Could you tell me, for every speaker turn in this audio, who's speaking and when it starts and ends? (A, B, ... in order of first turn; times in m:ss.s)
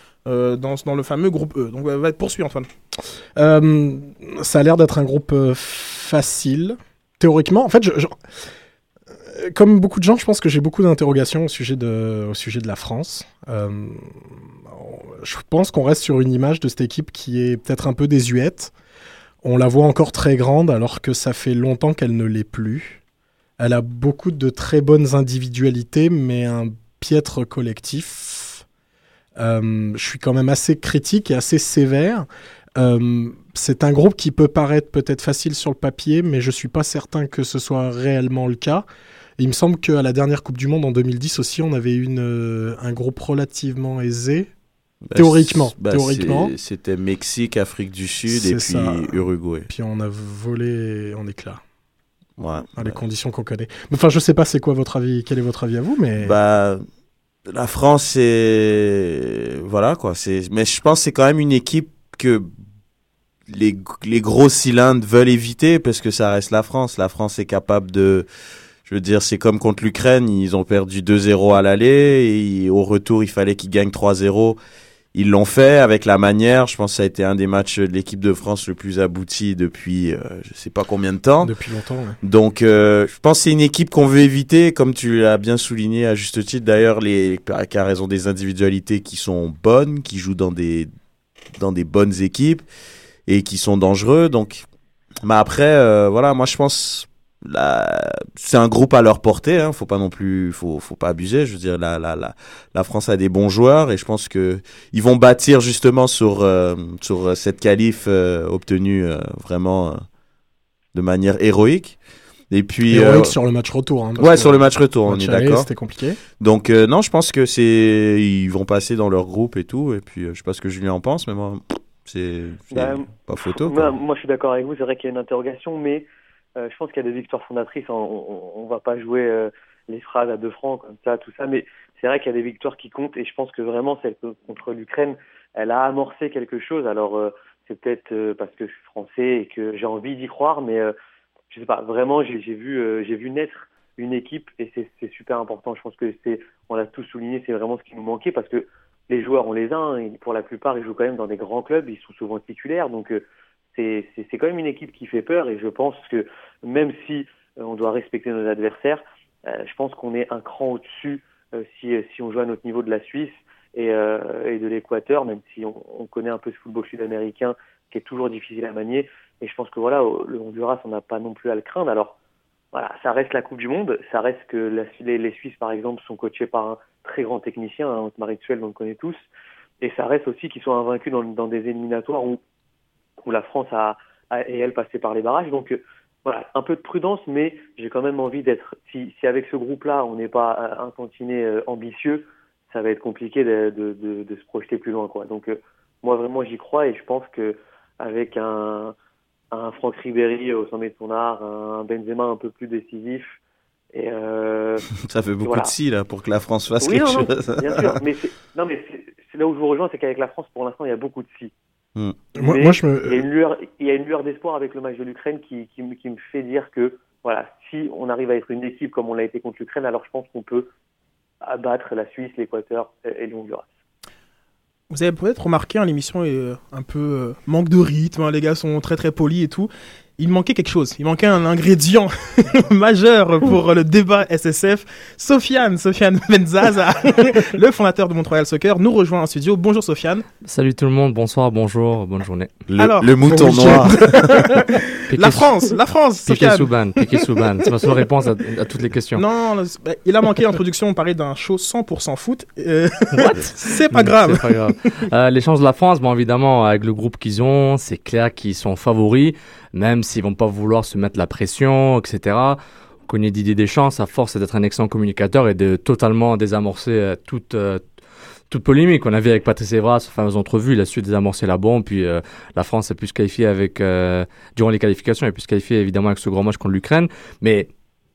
0:00.2-0:02.7 A
0:03.4-0:08.2 B
0:09.1-0:18.7 B
0:19.4-0:23.0 B
0:23.6-0:28.6 B
0:29.4-0:38.8 B
0:39.4-0:44.5 B
0:45.1-0:49.7 C
0:45.1-0:46.5 B
0:48.3-0:51.6 B
0:52.4-0:53.0 C
0:52.8-0:56.4 B
0:56.2-0:56.8 C
0:57.5-1:02.5 C
1:03.5-1:08.2 C
1:08.8-1:14.6 C
1:15.1-1:21.5 C
1:21.4-1:22.2 B
1:22.2-1:30.9 C
1:31.6-1:32.6 C
1:33.3-1:34.6 C
1:35.2-1:50.0 C
1:50.9-1:52.0 C
1:52.5-1:53.3 C
1:52.9-1:56.2 B
1:54.2-1:55.7 C
1:56.4-2:03.9 C
2:02.7-2:20.9 D
2:21.5-2:33.2 D
2:33.7-2:52.1 D
2:52.7-2:59.2 D
2:59.8-3:02.4 D
3:03.2-3:18.9 D
3:19.5-3:23.4 D
3:23.9-3:24.8 D
3:25.0-3:27.9 C
3:25.4-3:25.7 D
3:26.8-3:31.5 D
3:32.3-3:33.2 B
3:32.4-3:40.7 D
3:41.4-3:43.7 D
3:44.9-4:00.2 A
4:00.4-4:02.5 E
4:02.7-4:04.5 C
4:02.8-4:07.3 A
4:03.2-4:04.0 B
4:05.1-4:05.7 E
4:06.2-4:09.2 E
4:09.1-4:15.0 A
4:13.9-4:27.8 E
4:28.5-4:37.7 E